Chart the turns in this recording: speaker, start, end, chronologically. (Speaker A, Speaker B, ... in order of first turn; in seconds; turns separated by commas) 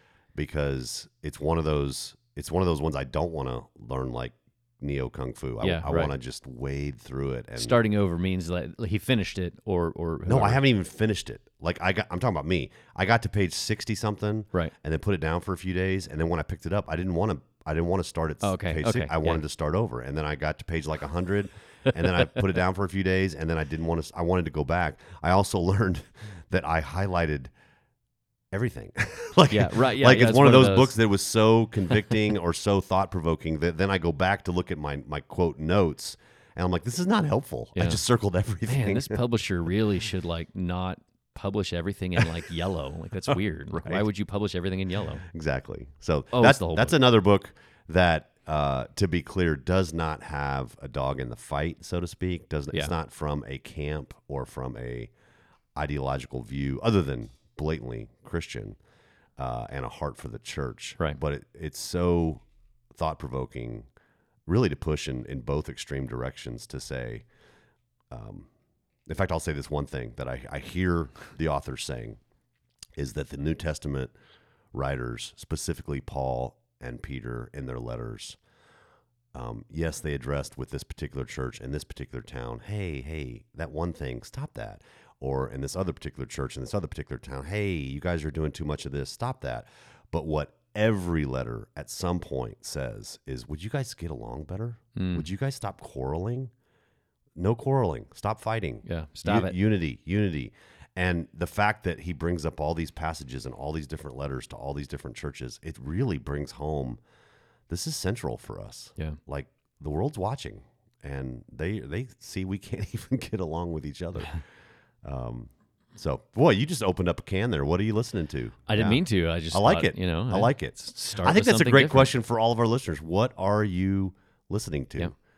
Speaker A: 0.3-7.8, Speaker B: 5.6-6.1, Speaker B: 7.5-10.6, Speaker A: 10.2-27.5, Speaker B: 18.4-19.4, Speaker A: 28.5-39.2, Speaker B: 29.5-31.0, Speaker B: 37.8-38.0, Speaker B: 38.6-45.2, Speaker A: 45.2-55.1, Speaker B: 46.3-46.9, Speaker A: 55.8-58.8, Speaker A: 59.4-62.4, Speaker A: 62.9-63.9, Speaker A: 64.5-67.2, Speaker A: 68.1-68.5, Speaker A: 69.1-72.2, Speaker A: 73.0-74.1, Speaker A: 74.7-78.4, Speaker A: 79.3-96.5, Speaker B: 94.9-95.2, Speaker A: 97.4-107.0, Speaker B: 98.9-99.5, Speaker A: 107.7-114.4, Speaker A: 115.0-125.1, Speaker B: 118.7-122.1